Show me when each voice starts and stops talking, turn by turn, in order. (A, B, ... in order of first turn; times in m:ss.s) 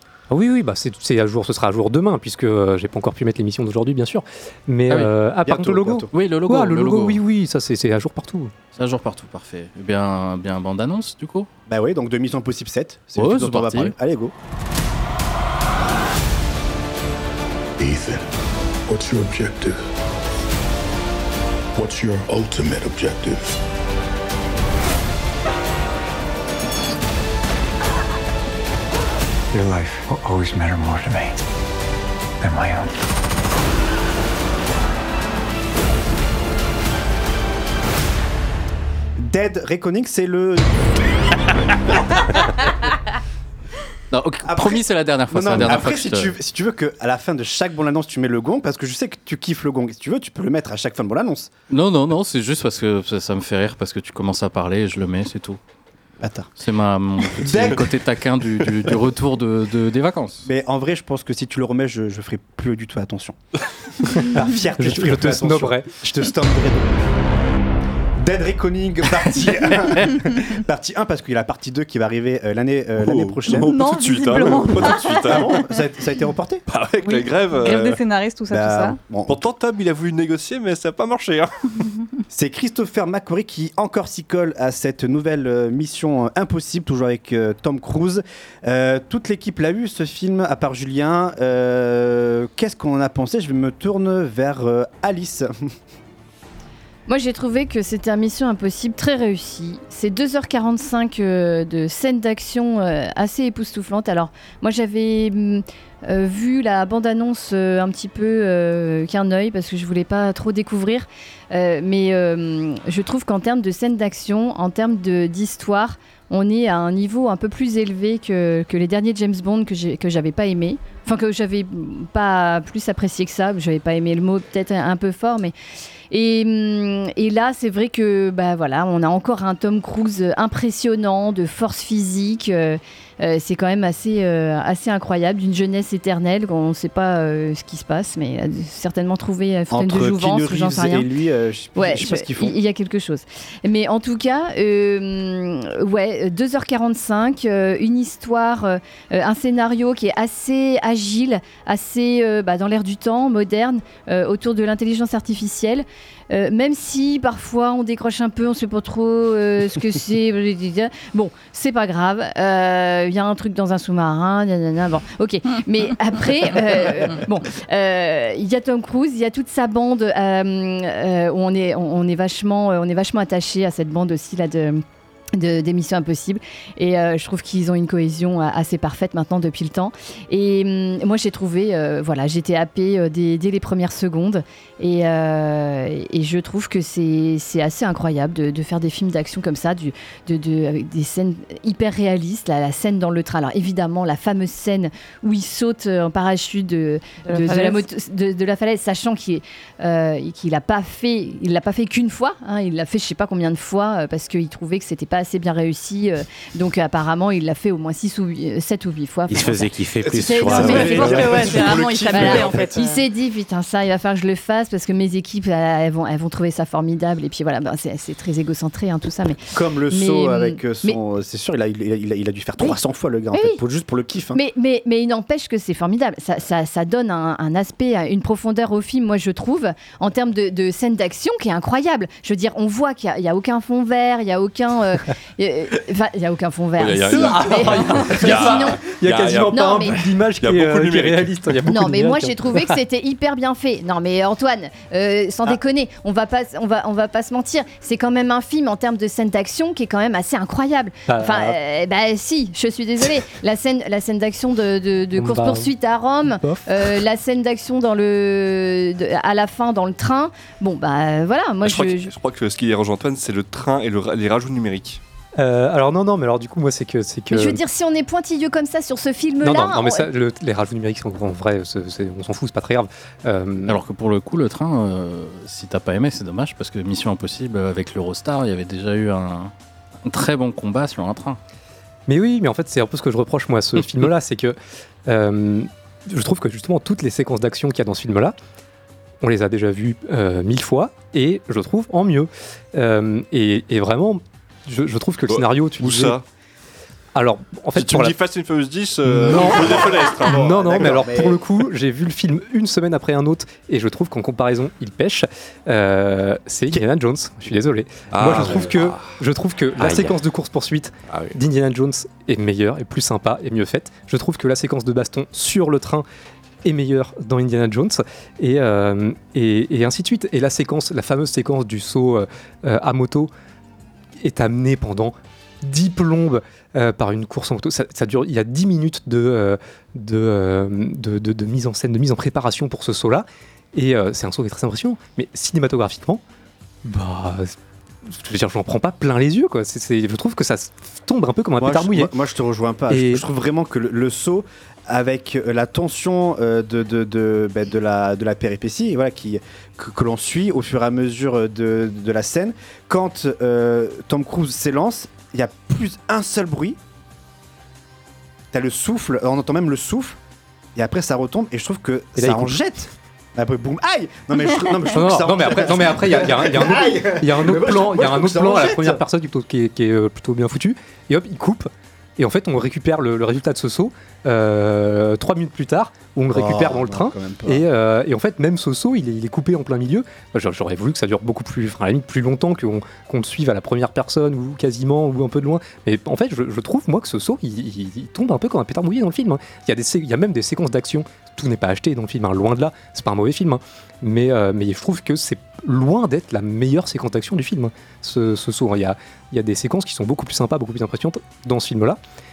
0:00.3-0:08.5 A
0:05.4-0:06.1 B
0:06.1-0:07.2 C
0:08.8-0:11.5 C
0:11.7-0:14.3 B
0:13.1-0:13.9 C
0:17.8-0:18.2 D
0:18.9-0:19.8 D
0:21.8-0:23.4 D
0:29.5-0:31.3 E
0:32.4-0:32.9 E
0:39.2-0:40.8 B
0:44.1-0:46.4 C
0:44.4-0:51.5 B
0:51.7-0:55.6 C
0:56.2-0:56.5 B
0:56.6-1:00.5 C
0:57.4-0:58.0 B
1:00.4-1:03.4 B
1:04.1-1:06.9 B
1:04.3-1:06.3 A
1:08.2-1:13.8 B
1:13.0-1:15.6 F
1:13.5-1:15.5 G
1:14.6-1:16.6 B
1:16.7-1:18.0 F
1:17.0-1:19.0 G
1:18.5-1:19.4 B
1:19.3-1:21.8 F
1:22.3-1:35.7 B
1:37.1-2:05.5 H
2:06.1-2:21.1 H
2:19.7-2:22.6 B
2:21.8-3:29.7 H
3:17.2-3:17.8 G
3:29.3-3:31.6 I
3:30.0-3:32.7 B
3:30.2-3:31.4 H
3:30.2-3:33.0 G
3:32.1-3:41.0 H
3:39.5-3:44.4 B
3:43.3-3:43.6 H
3:44.3-3:58.8 H
3:56.8-4:01.7 F
3:57.1-4:02.7 A
3:59.5-4:00.0 H
4:01.7-4:22.1 H
4:11.1-4:11.6 A
4:15.2-4:15.7 A
4:16.2-4:16.9 A
4:21.6-4:25.0 F
4:25.4-4:27.6 A
4:27.3-4:30.1 H
4:29.4-4:33.8 A
4:33.7-4:39.5 C
4:40.0-4:41.4 C
4:42.1-4:48.4 A
4:49.2-4:56.2 A
4:55.3-4:56.2 F
4:57.1-4:58.1 A
4:57.8-5:00.9 F
4:59.0-5:16.1 A
5:00.2-5:01.4 B
5:08.1-5:09.1 F
5:09.8-5:10.1 I
5:11.1-5:11.4 F
5:16.6-5:23.3 A
5:24.2-5:36.2 A
5:36.8-5:37.6 A
5:38.1-5:42.1 A
5:41.6-5:56.8 B
5:42.9-5:43.2 A
5:58.5-6:00.2 B
6:00.7-6:09.0 B
6:02.2-6:02.6 A
6:04.9-6:42.0 A
6:16.3-6:17.7 B